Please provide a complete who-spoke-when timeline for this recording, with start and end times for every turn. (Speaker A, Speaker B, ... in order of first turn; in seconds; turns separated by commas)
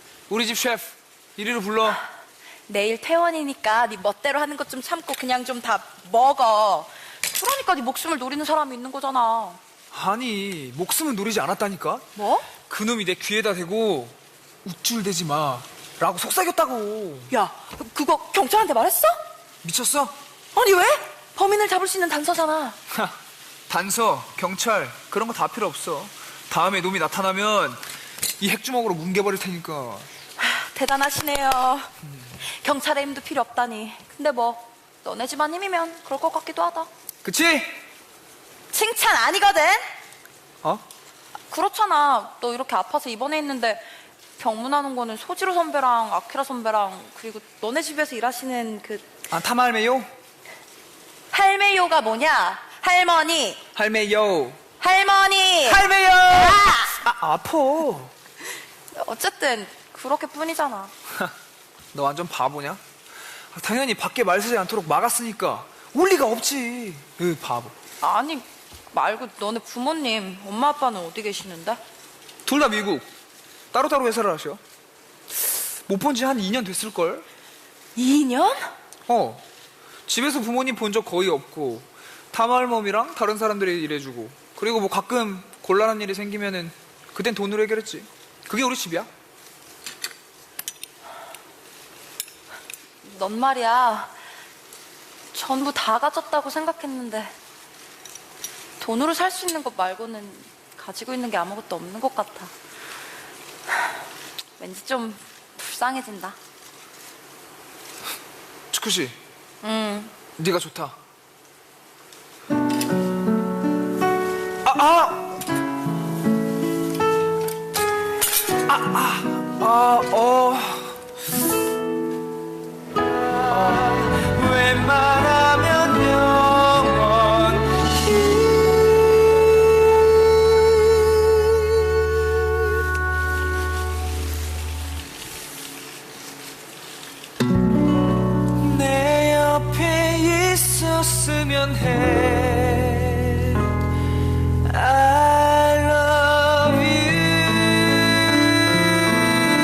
Speaker A: 0.3-2.0, Speaker B: 2.7-9.6, Speaker A: 9.9-12.1, Speaker B: 12.2-12.5, Speaker A: 12.7-17.3, Speaker B: 17.3-19.2, Speaker A: 19.6-20.1, Speaker B: 20.5-22.8, Speaker A: 23.7-27.8, Speaker A: 28.4-30.1, Speaker B: 30.4-31.9, Speaker B: 32.4-36.9, Speaker A: 37.2-37.7, Speaker B: 38.7-39.9, Speaker B: 41.5-43.8, Speaker B: 44.4-49.1, Speaker A: 49.3-50.1, Speaker B: 51.3-53.6, Speaker A: 53.7-54.6, Speaker B: 54.8-57.0, Speaker A: 55.6-58.1, Speaker B: 58.9-60.9, Speaker A: 61.9-62.8, Speaker A: 63.5-67.7, Speaker B: 68.0-71.8, Speaker A: 72.5-73.1, Speaker A: 73.7-74.6, Speaker A: 75.9-77.2, Speaker B: 78.0-78.7, Speaker A: 79.1-79.4, Speaker A: 80.1-89.1, Speaker B: 93.0-94.2, Speaker B: 95.3-97.3, Speaker B: 98.8-102.5, Speaker B: 104.6-106.4, Speaker A: 108.7-109.2, Speaker B: 109.6-110.1, Speaker A: 110.3-111.0, Speaker A: 114.6-115.4, Speaker A: 118.7-121.0, Speaker A: 123.5-127.9, Speaker A: 138.5-143.8, Speaker A: 144.6-148.9